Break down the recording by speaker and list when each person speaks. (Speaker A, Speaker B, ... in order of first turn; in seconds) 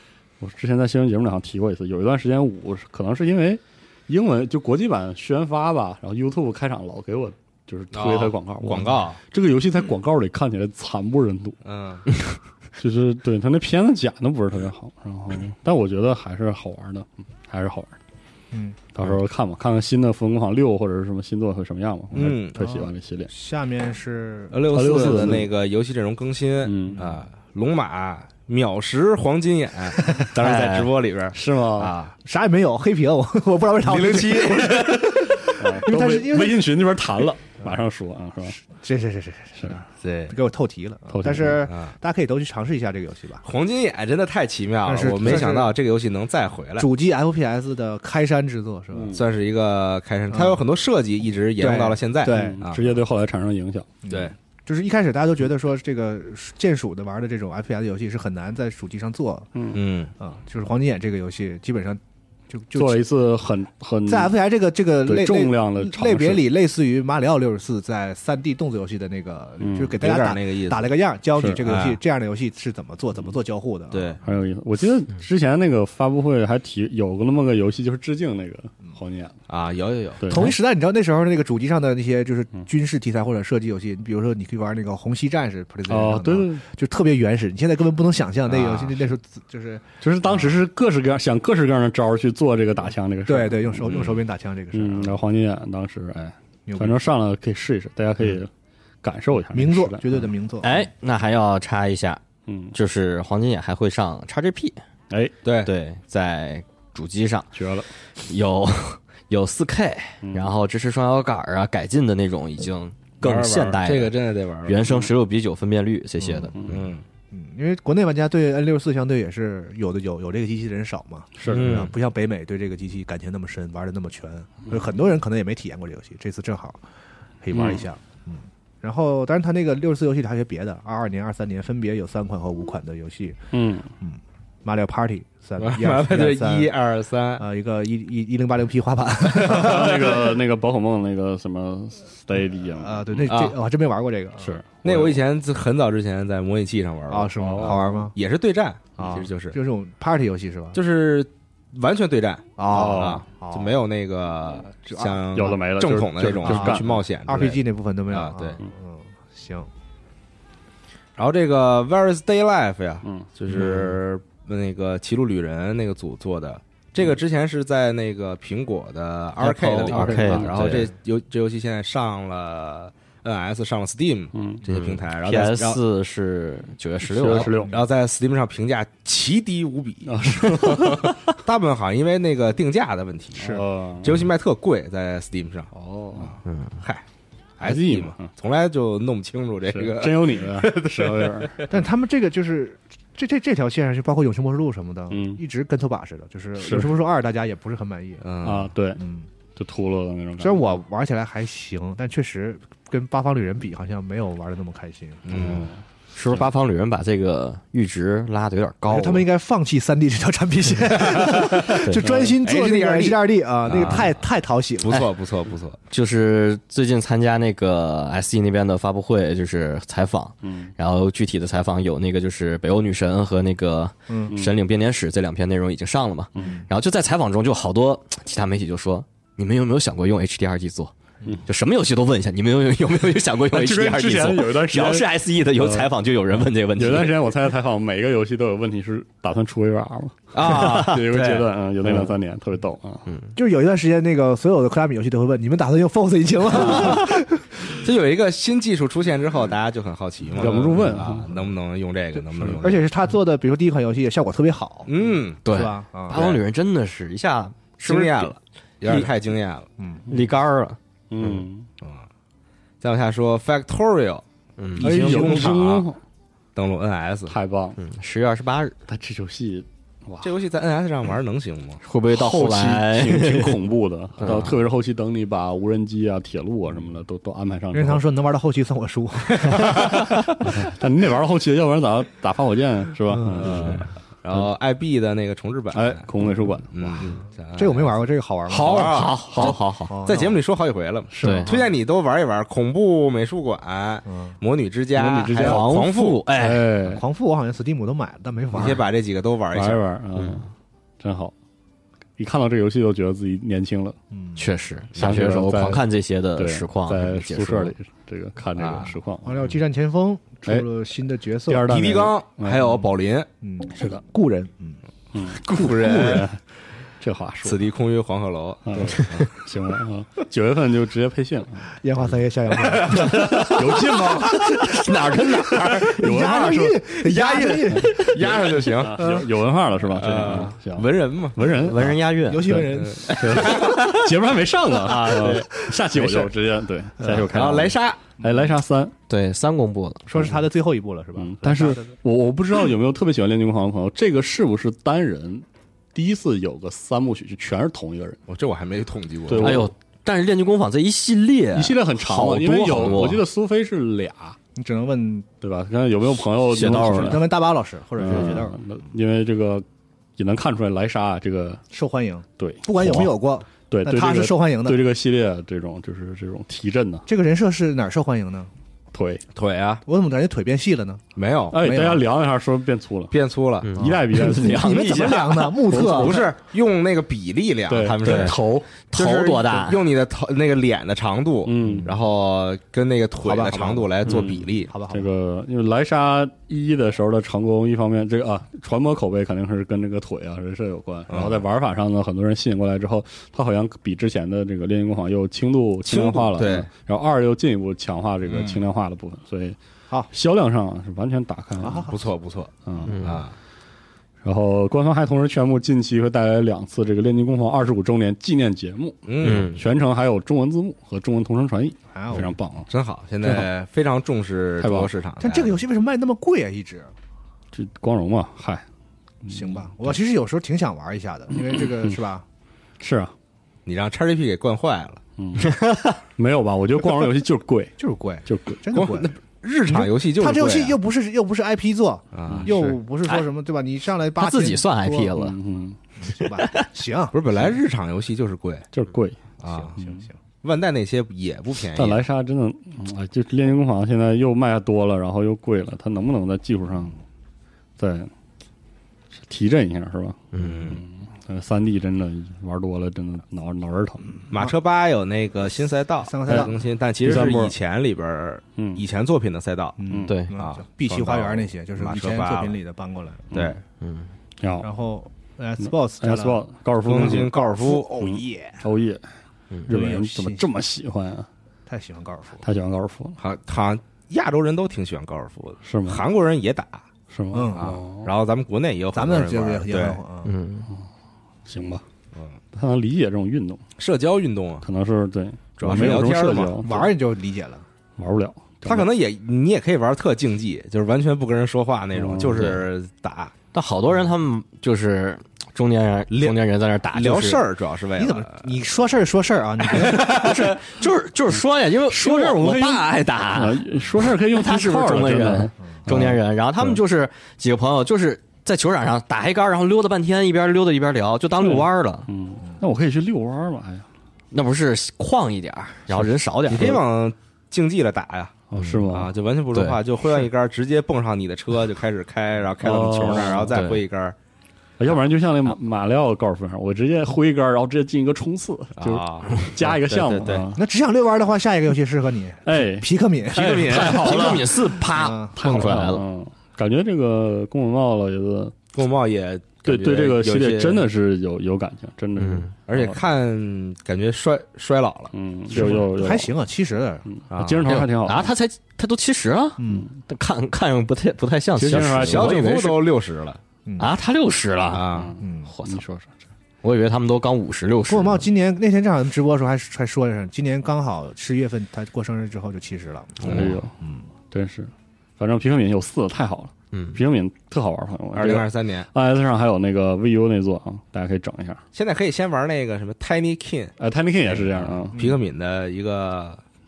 Speaker A: 0.4-11.6, 12.8-17.9, 18.9-23.3, 24.7-25.5, 26.6-27.0, 31.3-31.9, 35.4-38.6, 41.1-41.6, 48.9-49.2, 52.3-54.0, 59.5-59.8, 62.8-64.4, 65.1-66.5, 69.6-70.0, 74.2-79.4, 80.2-80.5, 85.9-86.6, 90.0-94.0, 94.7-98.5, 99.0-100.3, 102.5-102.8, 107.5-107.9, 110.2-110.5, 116.5-116.8, 121.4-121.9, 133.5-133.9, 139.3-143.2, 144.4-145.2, 147.4-147.9, 152.7-153.2, 155.3-157.0, 163.0-163.9, 169.9-170.9, 174.3-174.6, 177.0-177.7, 180.1-181.2, 183.4-184.3, 185.7-186.3, 187.6-188.3, 189.7-191.7, 195.1-195.4, 196.6-196.9, 198.4-199.0, 199.6-200.7, 205.3-205.8, 220.4-220.7, 233.5-235.9, 236.8-243.1, 250.3-251.3, 261.1-261.7, 264.8-266.0, 267.3-267.8, 268.9-270.3, 272.1-278.0, 279.9-283.9, 285.7-287.1, 288.6-289.6, 291.1-291.5, 294.9-297.0, 299.5-300.5, 301.0-301.3, 302.2-304.0, 304.9-309.5, 311.5-312.8, 313.8-314.0, 315.1-316.4, 317.0-317.6, 318.7-321.7, 322.9-324.6, 325.8-326.8, 328.8-338.9, 341.2-348.2, 349.3-349.7, 351.6-354.4, 355.4-357.3, 358.0-359.6, 360.2-361.6, 362.4-363.1, 363.7-367.1, 368.9-369.2, 371.5-373.1, 373.8-374.9, 375.7-376.3, 377.7-378.8, 381.4-381.9, 384.0-399.6, 400.1-401.9, 402.7-403.2, 404.2-412.7, 413.2-413.5, 414.6-414.9, 417.5-418.6, 419.3-419.6, 421.5-422.0, 422.8-423.1, 425.2-425.6, 426.2-427.7, 428.3-428.6, 435.1-435.8, 438.7-439.2, 441.7-447.0, 447.8-448.1, 449.3-454.2, 457.0-457.6, 458.6-458.8, 463.3-463.6, 464.4-464.7, 466.0-467.3, 468.0-469.1, 469.7-471.3, 472.4-473.2, 475.6-476.1, 477.1-478.1, 481.5-481.8, 482.5-483.6, 484.6-486.9, 488.0-488.9, 491.9-492.6, 501.9-506.8, 511.4-513.9, 515.9-516.8, 518.5-519.1, 522.6-523.7, 524.8-530.6, 532.5-532.9, 533.6-534.7, 535.4-538.5, 539.6-543.0, 545.1-546.3, 547.1-548.3, 551.6-552.5, 554.9-556.1, 563.2-563.7, 564.3-571.6, 573.8-575.0
Speaker B: 7.9-9.2, 11.6-12.1, 22.1-22.6, 24.5-32.1, 33.8-35.2, 40.0-40.4, 41.7-41.9, 43.4-46.9, 49.1-53.0, 59.7-60.1, 70.0-70.9, 71.6-72.0, 73.9-74.2, 79.5-80.5, 88.5-89.0, 93.9-94.2, 105.5-105.7, 113.2-115.1, 116.7-117.0, 121.5-121.9, 135.6-137.4, 143.3-143.6, 144.8-149.6, 150.7-158.6, 161.2-175.8, 177.6-187.0, 187.6-191.7, 198.2-198.7, 205.3-205.7, 211.0-214.2, 214.8-215.8, 240.3-241.5, 246.6-246.9, 247.7-252.9, 254.9-255.6, 256.1-256.4, 257.8-259.7, 261.2-262.1, 262.8-264.2, 264.8-265.9, 266.6-267.4, 270.2-271.8, 283.6-286.1, 286.7-287.9, 288.6-289.5, 290.1-296.2, 298.5-299.8, 308.6-308.9, 311.7-313.3, 315.3-316.3, 317.4-319.4, 322.6-323.8, 327.1-329.2, 329.9-331.7, 332.7-334.0, 334.8-336.3, 337.2-338.0, 348.3-349.7, 369.3-369.8, 371.2-371.6, 373.1-373.7, 374.9-378.4, 378.9-384.7, 391.1-391.4, 395.9-396.7, 398.3-398.6, 401.9-403.3, 409.1-409.6, 412.7-415.6, 423.7-425.0, 428.8-430.8, 432.1-432.8, 437.1-438.7, 439.4-439.8, 440.4-442.0, 450.4-450.8, 454.3-459.8, 460.3-462.6, 463.3-463.6, 466.9-467.9, 473.2-476.9, 477.6-480.0, 483.8-484.7, 485.6-486.8, 488.6-493.3, 496.1-496.4, 496.9-498.5, 516.5-524.2, 528.8-530.5, 533.3-534.4, 538.7-540.8, 542.7-545.8, 547.3-547.8, 552.0-553.4, 554.7-555.2, 563.2-563.6, 568.1-568.9, 571.7-573.7, 574.3-576.4
Speaker C: 18.5-18.8, 22.6-25.4, 32.2-36.6, 38.6-43.5, 44.9-45.8, 46.8-49.2, 50.3-50.6, 51.6-52.6, 54.0-59.5, 60.2-63.0, 64.1-74.2, 80.3-90.6, 93.3-95.2, 96.7-97.0, 99.5-100.8, 117.3-126.8, 127.4-133.5, 134.0-136.8, 137.4-140.3, 142.8-144.6, 147.1-148.2, 149.0-150.8, 152.6-153.8, 154.9-155.2, 156.4-159.7, 183.4-183.6, 191.7-198.2, 199.0-199.3, 200.4-205.5, 208.9-215.0, 224.1-224.3, 226.4-226.7, 243.3-247.6, 252.2-256.2, 259.8-260.0, 277.7-280.0, 283.1-283.8, 287.5-289.0, 289.9-290.4, 294.1-294.4, 296.9-298.8, 304.1-304.4, 309.2-311.7, 313.4-314.8, 321.8-323.6, 325.6-328.4, 332.3-333.2, 340.1-341.9, 354.6-355.3, 356.8-358.6, 361.7-364.8, 367.1-368.5, 369.9-371.0, 371.6-372.0, 373.8-376.2, 381.6-381.9, 383.2-383.9, 384.7-385.1, 401.6-402.0, 411.9-412.3, 415.2-416.9, 419.2-422.2, 427.8-429.1, 429.6-435.2, 436.0-437.2, 439.4-440.1, 456.0-456.6, 459.8-463.3, 464.6-468.6, 469.7-470.5, 471.7-472.4, 477.3-477.8, 478.9-480.4, 485.7-487.6, 498.0-500.3, 530.5-533.9, 534.9-535.4, 545.5-547.1, 549.6-549.9, 555.2-555.5, 557.9-564.0, 574.9-575.2
Speaker D: 30.4-30.9, 100.6-102.2, 102.7-104.8, 105.6-107.5, 108.2-116.6, 169.4-170.9, 174.7-177.6, 186.5-186.7, 206.2-209.3, 211.8-212.2, 215.9-230.9, 231.4-237.3, 240.4-241.1, 243.1-243.3, 246.6-246.9, 255.4-259.1, 260.1-260.8, 264.6-265.5, 267.8-268.8, 271.8-273.6, 274.2-274.6, 288.5-290.0, 291.2-291.5, 295.4-296.7, 304.4-307.7, 323.1-323.8, 324.6-325.8, 331.5-334.0, 334.9-335.4, 339.1-340.1, 349.4-353.2, 356.5-357.3, 373.6-375.4, 378.0-378.4, 378.9-379.9, 402.8-403.2, 409.2-409.6, 425.4-426.0, 434.2-435.4, 436.4-436.7, 450.4-450.8, 460.1-460.3, 463.8-464.1, 480.2-480.7, 493.5-497.4, 499.7-512.1, 514.3-516.8, 519.5-519.8, 523.3-523.8, 530.1-530.4, 533.7-536.0, 542.2-542.5, 547.6-552.9, 553.8-554.9, 555.5-555.8, 556.6-558.3, 566.7-567.0